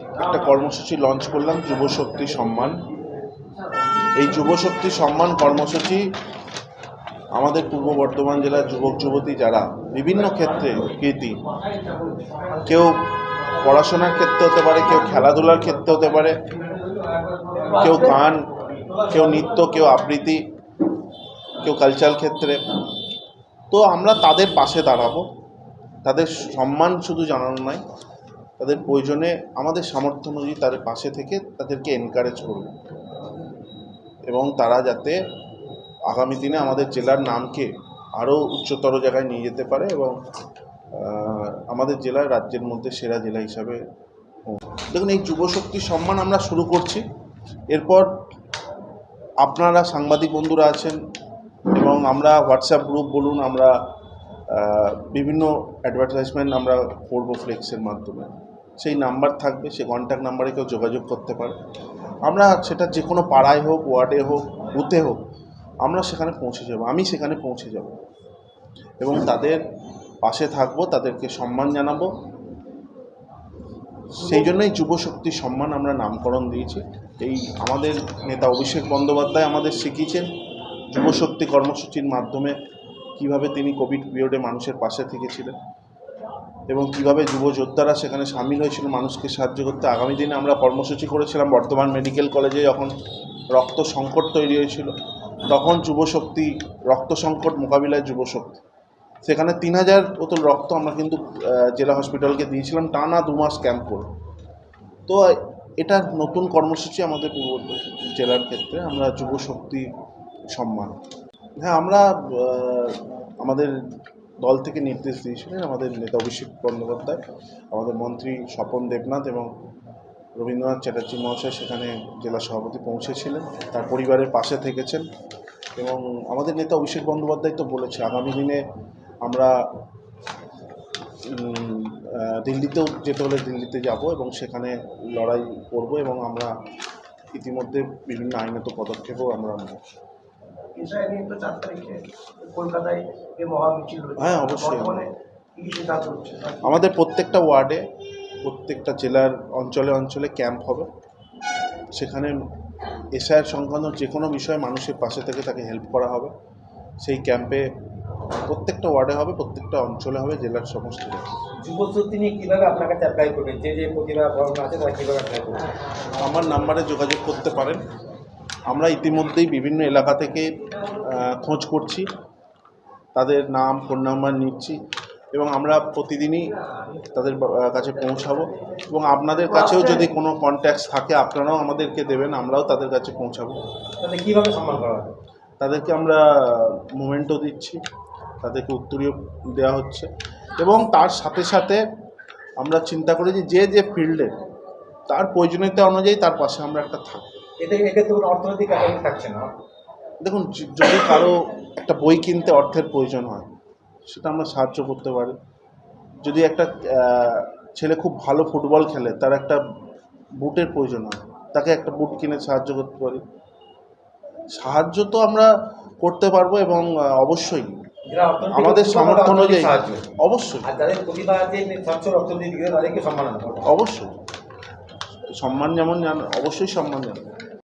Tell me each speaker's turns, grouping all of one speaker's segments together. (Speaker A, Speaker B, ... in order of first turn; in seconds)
Speaker A: 0.1-2.8, 4.2-6.1, 7.3-11.4, 12.6-13.1, 13.6-16.4, 17.7-20.4, 21.6-22.6, 23.7-25.3, 26.0-27.8, 28.6-32.7, 34.3-35.2, 36.1-40.1, 40.9-43.8, 44.5-47.0, 47.7-48.1, 49.4-51.0, 51.7-53.8, 54.5-61.6, 62.2-65.2, 65.8-68.0, 69.0-69.6, 70.2-72.1, 74.1-80.3, 80.9-82.5, 83.2-85.5, 86.7-92.9, 93.5-94.9, 95.5-98.6, 99.2-104.1, 105.1-109.9, 110.5-110.9, 111.6-113.8, 114.4-117.2, 117.7-119.5, 120.4-125.0, 125.8-128.6, 129.2-129.5, 131.3-136.5, 137.3-139.8, 144.2-145.0, 146.6-147.8, 148.4-150.9, 151.9-152.4, 153.1-156.3, 157.0-157.7, 158.4-161.3, 166.2-167.8, 168.7-172.1, 173.1-174.8, 175.3-176.5, 177.1-183.6, 185.6-187.8, 188.4-191.8, 192.6-194.3, 195.1-197.2, 200.2-203.5, 204.1-205.4, 206.2-209.6, 210.4-213.2, 214.6-217.8, 218.5-220.7, 223.7-224.1, 225.4-227.2
Speaker B: 140.7-146.8
Speaker C: 161.6-165.7, 184.0-185.1, 197.6-199.5, 218.1-220.1, 220.6-223.7